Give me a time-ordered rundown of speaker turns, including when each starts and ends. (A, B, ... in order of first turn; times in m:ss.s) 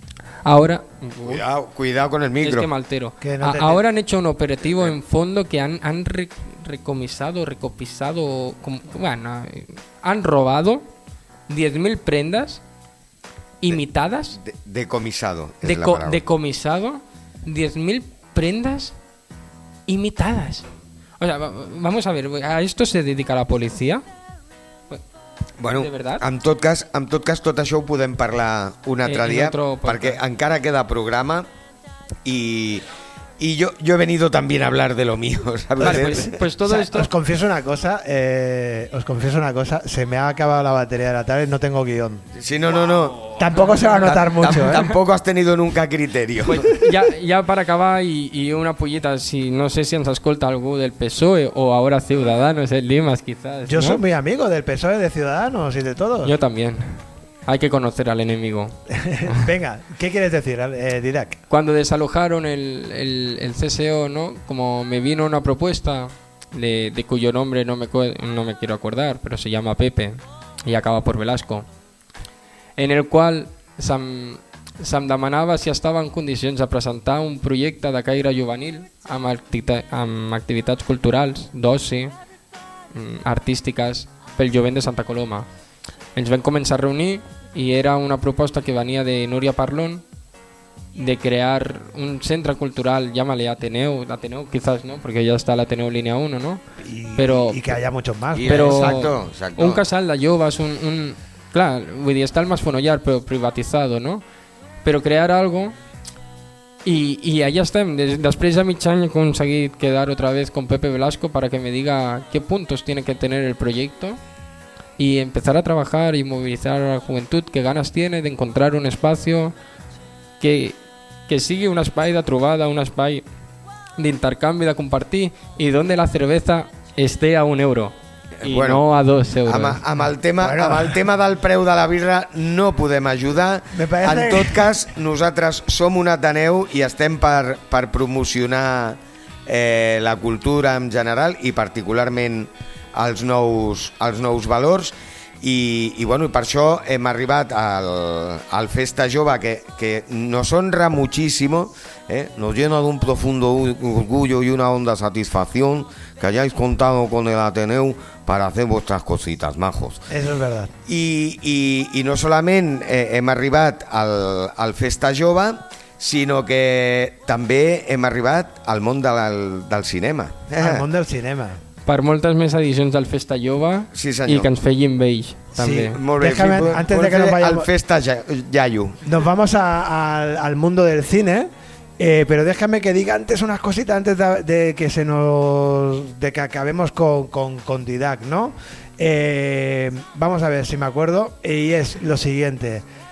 0:00.4-0:01.4 A
0:01.2-0:02.7 B
0:02.4-0:10.9 A
0:03.2-0:03.8 C
0:04.6-0:05.0 B
0:11.5-0:12.6 A
0:13.6-0:14.4 A
0:14.4-0:16.2 B
0:15.6-0:19.0 A
0:19.9-0:20.7 A
0:21.2-0:24.0 A
0:25.6-0:31.5 B
0:25.7-0:26.2 A
0:29.0-0:30.2 A
0:32.2-0:32.8 B
0:33.4-0:36.4 B
0:35.8-0:37.1 A
0:35.8-0:42.2 C
0:42.4-0:46.7 B
0:43.4-0:44.9 C
0:43.6-0:44.2 A
0:46.4-0:54.0 A
0:53.7-0:56.3 C
0:56.2-0:58.8 A
0:58.9-1:01.4 C
1:01.5-1:11.7 A
1:12.8-1:22.1 A
1:22.9-1:25.5 A
1:26.2-1:30.0 A
1:31.0-1:36.6 A
1:36.8-1:39.0 C
1:37.2-1:37.8 A
1:38.3-1:39.8 B
1:38.4-1:44.2 A
1:44.8-1:45.8 A
1:46.8-1:54.2 A
1:55.0-1:59.5 A
2:00.4-2:03.2 A
2:04.0-2:09.8 A
2:08.4-2:08.8 B
2:09.5-2:40.0 B
2:10.4-2:11.0 C
2:13.7-2:14.7 C
2:40.1-2:40.7 C
2:40.9-2:50.9 B
2:50.6-2:51.6 C
2:51.9-2:56.0 A
2:53.9-2:54.5 B
2:55.6-2:57.7 C
2:55.9-2:59.0 B
2:59.0-3:12.8 C